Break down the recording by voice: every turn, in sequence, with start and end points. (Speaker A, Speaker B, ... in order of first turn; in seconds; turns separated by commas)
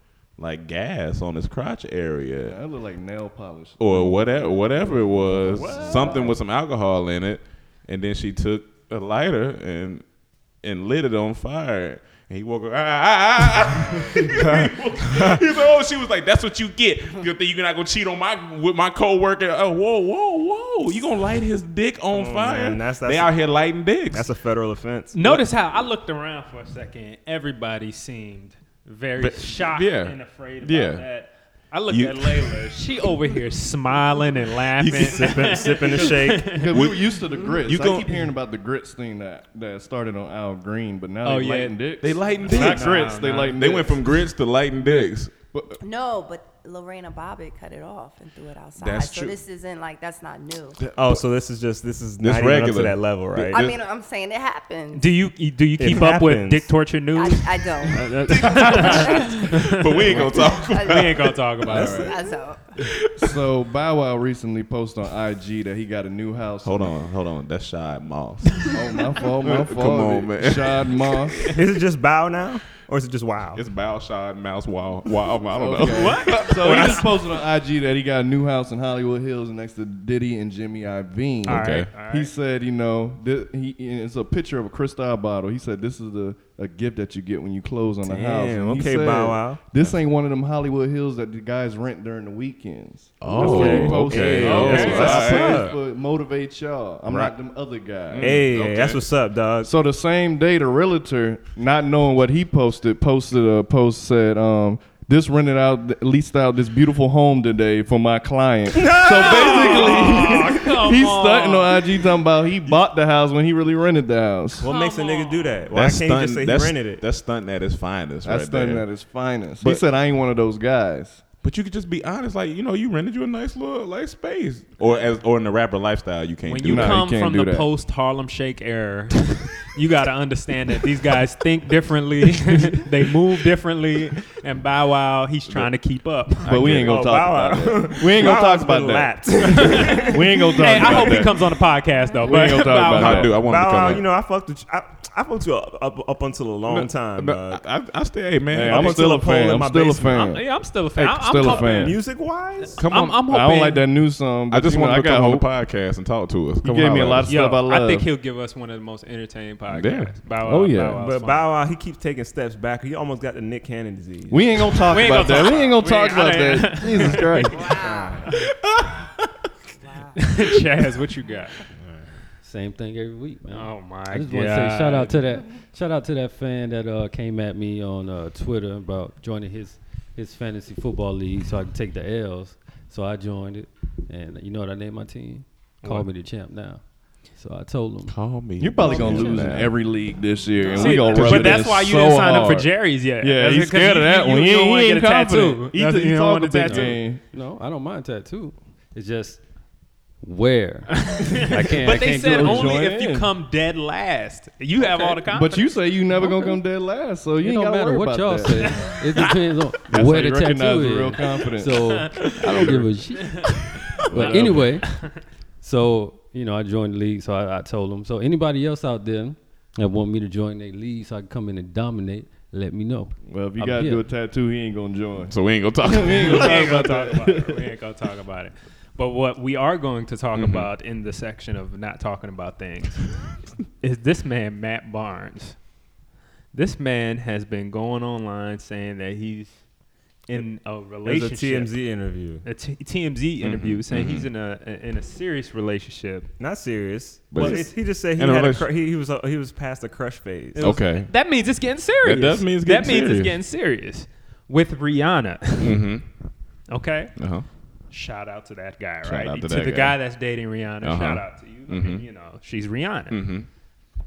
Speaker A: 0.4-2.6, Speaker B: 2.4-6.4, Speaker A: 3.8-10.0, Speaker A: 10.6-24.3, Speaker C: 14.2-15.4, Speaker C: 22.1-23.4, Speaker C: 24.1-25.2, Speaker D: 25.1-36.7, Speaker A: 29.2-31.0, Speaker A: 31.9-32.7, Speaker A: 34.8-35.3, Speaker C: 35.1-36.6, Speaker B: 36.5-44.1, Speaker A: 36.7-38.3, Speaker D: 41.2-41.8, Speaker A: 42.0-45.3, Speaker D: 42.4-43.5, Speaker B: 45.5-45.8, Speaker E: 45.8-50.8, Speaker A: 48.8-49.4, Speaker A: 50.8-51.2, Speaker C: 50.9-53.6, Speaker A: 52.2-53.8, Speaker E: 53.4-55.1, Speaker D: 54.9-57.7, Speaker C: 55.8-56.7, Speaker E: 57.1-58.1, Speaker B: 57.9-58.6, Speaker A: 58.3-61.9, Speaker D: 58.3-62.2, Speaker E: 58.7-59.4, Speaker E: 60.4-62.7, Speaker B: 61.7-62.2, Speaker A: 62.8-63.3, Speaker B: 63.2-66.9, Speaker A: 66.6-68.8, Speaker B: 68.7-71.5, Speaker A: 69.4-71.6, Speaker C: 71.5-73.6, Speaker A: 73.5-77.0, Speaker B: 75.5-98.4, Speaker D: 75.8-77.1, Speaker A: 81.5-81.9, Speaker C: 81.5-81.9, Speaker D: 81.5-82.3, Speaker C: 88.0-89.6, Speaker A: 93.2-95.7, Speaker C: 93.3-95.8, Speaker D: 94.7-95.0, Speaker A: 97.1-97.3, Speaker A: 98.1-99.1, Speaker C: 98.2-99.7, Speaker B: 99.6-114.7, Speaker C: 108.7-110.5, Speaker D: 109.1-112.0, Speaker C: 114.6-117.0, Speaker D: 114.6-115.6, Speaker A: 115.7-118.9, Speaker B: 118.2-121.2, Speaker A: 121.4-127.1, Speaker D: 126.5-136.7, Speaker B: 126.7-127.7, Speaker A: 136.4-137.2, Speaker B: 136.5-141.6, Speaker C: 136.7-140.2, Speaker D: 139.5-143.4, Speaker B: 142.2-143.4, Speaker A: 142.8-144.1, Speaker C: 143.4-147.6, Speaker A: 146.7-149.2, Speaker B: 148.5-152.0, Speaker C: 148.6-150.3, Speaker D: 150.1-152.0, Speaker C: 151.4-152.8, Speaker A: 152.8-153.2, Speaker D: 152.8-153.8, Speaker B: 153.2-155.5, Speaker A: 154.5-157.3, Speaker B: 156.6-158.1, Speaker D: 157.3-161.4, Speaker A: 159.7-160.3, Speaker B: 160.4-161.0, Speaker C: 161.0-165.0, Speaker B: 164.3-167.7, Speaker D: 164.9-167.6, Speaker E: 167.5-168.3, Speaker C: 167.7-168.3, Speaker A: 168.3-169.3, Speaker E: 169.8-170.2, Speaker D: 170.2-171.6, Speaker C: 171.8-172.1, Speaker F: 172.4-188.2, Speaker D: 173.5-175.2, Speaker A: 188.1-189.8, Speaker B: 188.6-197.2, Speaker F: 188.8-189.4, Speaker D: 190.7-197.0, Speaker F: 190.7-191.4, Speaker A: 191.0-191.6, Speaker F: 196.7-199.4, Speaker F: 200.2-202.8, Speaker D: 201.0-205.8, Speaker B: 202.3-203.3, Speaker B: 205.3-208.9, Speaker F: 206.2-206.6, Speaker F: 207.4-224.1, Speaker B: 209.9-213.1, Speaker D: 213.2-213.6, Speaker B: 214.1-214.8, Speaker D: 214.2-215.1, Speaker B: 223.2-227.7, Speaker A: 225.3-226.6, Speaker D: 226.0-235.7, Speaker A: 230.3-230.7, Speaker D: 236.5-239.6, Speaker C: 240.3-242.5, Speaker D: 240.3-241.8, Speaker D: 242.4-246.3, Speaker A: 243.4-244.3, Speaker C: 246.4-250.8, Speaker A: 247.3-248.7, Speaker D: 247.4-247.7, Speaker D: 250.6-255.8, Speaker A: 250.6-251.1, Speaker A: 252.0-253.4, Speaker A: 255.6-256.1, Speaker D: 256.7-257.1, Speaker A: 257.2-257.5, Speaker D: 257.9-263.3, Speaker A: 259.0-260.0, Speaker A: 260.8-262.1, Speaker A: 263.1-263.5